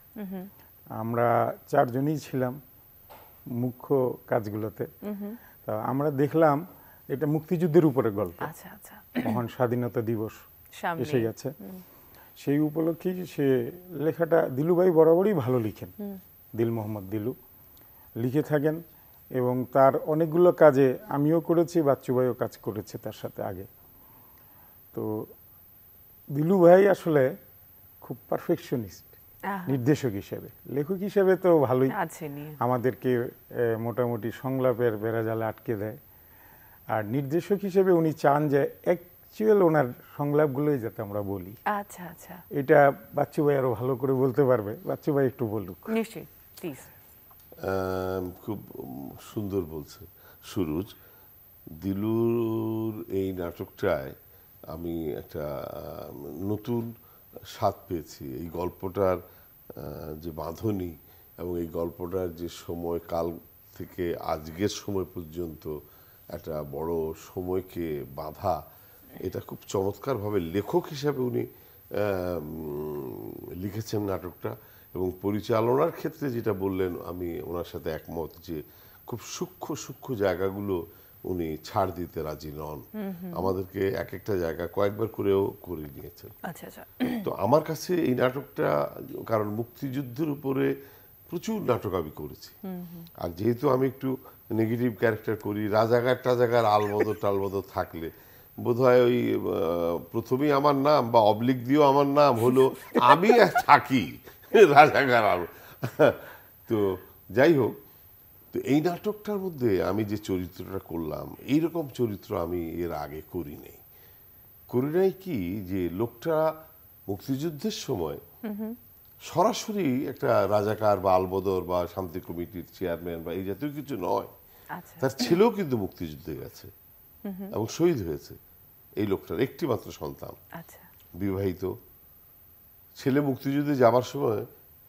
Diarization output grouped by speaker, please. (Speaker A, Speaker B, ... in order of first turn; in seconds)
Speaker A: 0.2-0.5, 5.1-5.4, 8.4-9.4, 10.8-11.8, 29.5-29.8, 31.9-32.6, 41.7-42.4, 45.9-46.9, 83.0-83.5, 86.5-87.2, 92.7-93.1, 118.5-118.8, 124.7-125.3, 127.2-127.5, 130.6-130.9
Speaker B: 1.0-2.6, 3.6-4.9, 5.7-6.6, 7.1-8.5, 9.2-10.4, 11.0-11.5, 12.4-13.5, 14.0-15.9, 16.6-17.3, 18.2-18.8, 19.4-23.7, 26.4-27.3, 28.0-29.1, 29.7-31.9, 32.6-33.1, 33.8-36.0, 37.0-41.6, 42.6-45.9
Speaker C: 47.6-50.9, 51.8-54.1, 54.7-56.9, 57.5-59.2, 59.8-65.7, 66.3-68.6, 69.2-71.5, 72.0-86.3, 87.2-88.7, 89.3-90.7, 91.3-92.5, 93.2-98.1, 98.6-107.8, 108.5-113.8, 114.7-116.5, 117.1-118.2, 119.3-124.3, 125.0-126.7, 127.5-128.4, 129.0-130.4, 131.2-131.7, 133.0-134.4